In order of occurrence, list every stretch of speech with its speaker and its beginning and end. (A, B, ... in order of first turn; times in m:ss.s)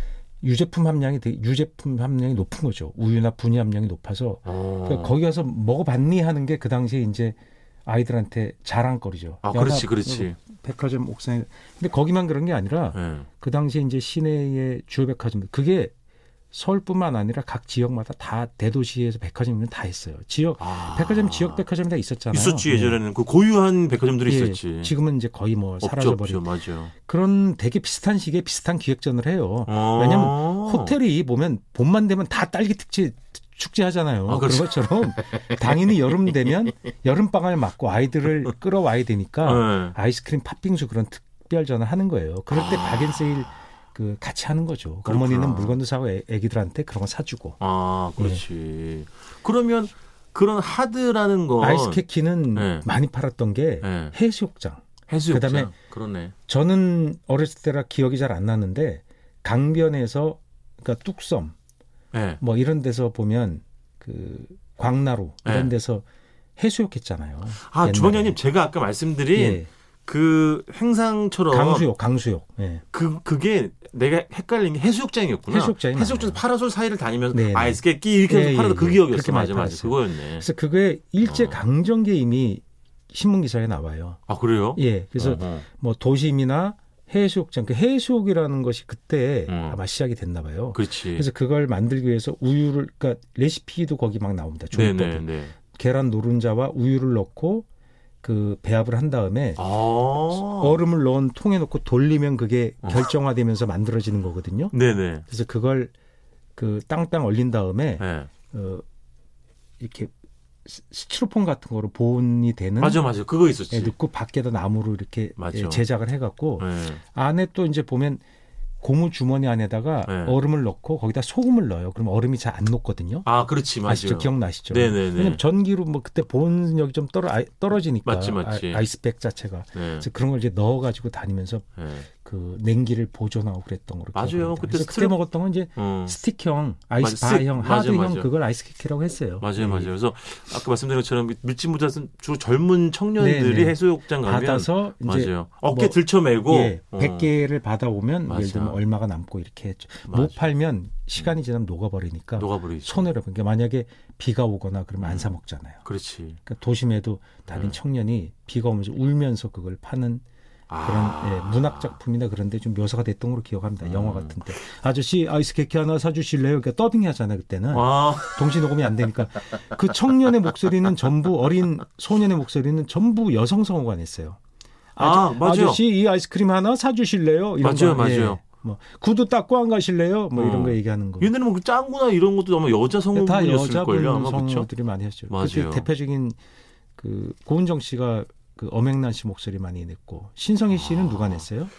0:00.4-0:15.9 A
0:04.5-0:05.2 B
0:09.4-0:10.4 B
0:12.9-0:13.3 B
0:16.5-0:23.0 A
0:20.6-0:21.6 B
0:22.3-0:24.9 B
0:24.2-0:47.6 A
0:25.8-0:26.9 B
0:29.7-0:31.0 B
0:34.3-0:36.0 B
0:39.4-0:40.0 B
0:42.5-0:43.5 B
0:45.0-0:45.8 B
0:47.6-0:52.0 B
0:48.2-0:48.4 A
0:51.6-0:55.7 A
0:52.5-0:52.9 B
0:53.8-0:54.2 B
0:55.1-0:56.3 B
0:56.5-1:01.6 A
1:02.1-1:02.4 B
1:02.4-1:06.0 A
1:05.4-1:05.7 B
1:06.6-1:08.4 A
1:07.6-1:11.9 B
1:09.3-1:09.7 A
1:11.5-1:12.8 A
1:12.9-1:20.5 B
1:15.5-1:16.4 A
1:17.3-1:24.2 A
1:21.2-1:21.6 B
1:24.3-1:25.6 B
1:24.8-1:37.7 A
1:29.5-1:29.8 B
1:30.7-1:31.3 B
1:34.7-1:35.6 B
1:38.2-1:39.6 A
1:39.6-1:40.8 B
1:40.3-1:45.9 A
1:44.7-1:45.2 B
1:46.6-1:48.8 A
1:48.0-1:48.3 B
1:49.8-1:50.1 A
1:50.6-1:53.1 A
1:52.8-1:54.0 B
1:53.7-1:58.2 A
1:55.4-1:55.8 B
1:56.6-1:57.0 B
1:58.8-2:03.3 A
2:00.1-2:00.4 B
2:03.2-2:05.4 B
2:03.8-2:19.9 A
2:08.0-2:08.9 B
2:09.7-2:10.1 B
2:11.8-2:12.1 B
2:14.2-2:15.2 B
2:15.8-2:16.2 B
2:17.0-2:18.3 B
2:19.4-2:27.3 B
2:23.2-2:35.8 A
2:28.3-2:28.8 B
2:30.1-2:30.6 B
2:32.4-2:33.1 B
2:35.0-2:35.3 B
2:35.8-2:36.4 B
2:36.4-2:40.2 A
2:37.5-2:37.8 B
2:40.7-2:42.0 B
2:40.8-2:54.4 A
2:43.8-2:44.4 B
2:47.7-2:48.7 B
2:55.0-3:01.3 A
2:55.0-2:55.8 B
2:57.6-2:58.4 B
3:00.4-3:04.7 B
3:03.1-3:06.4 A
3:05.3-3:05.9 B
3:07.0-3:11.7 A
3:10.7-3:11.5 B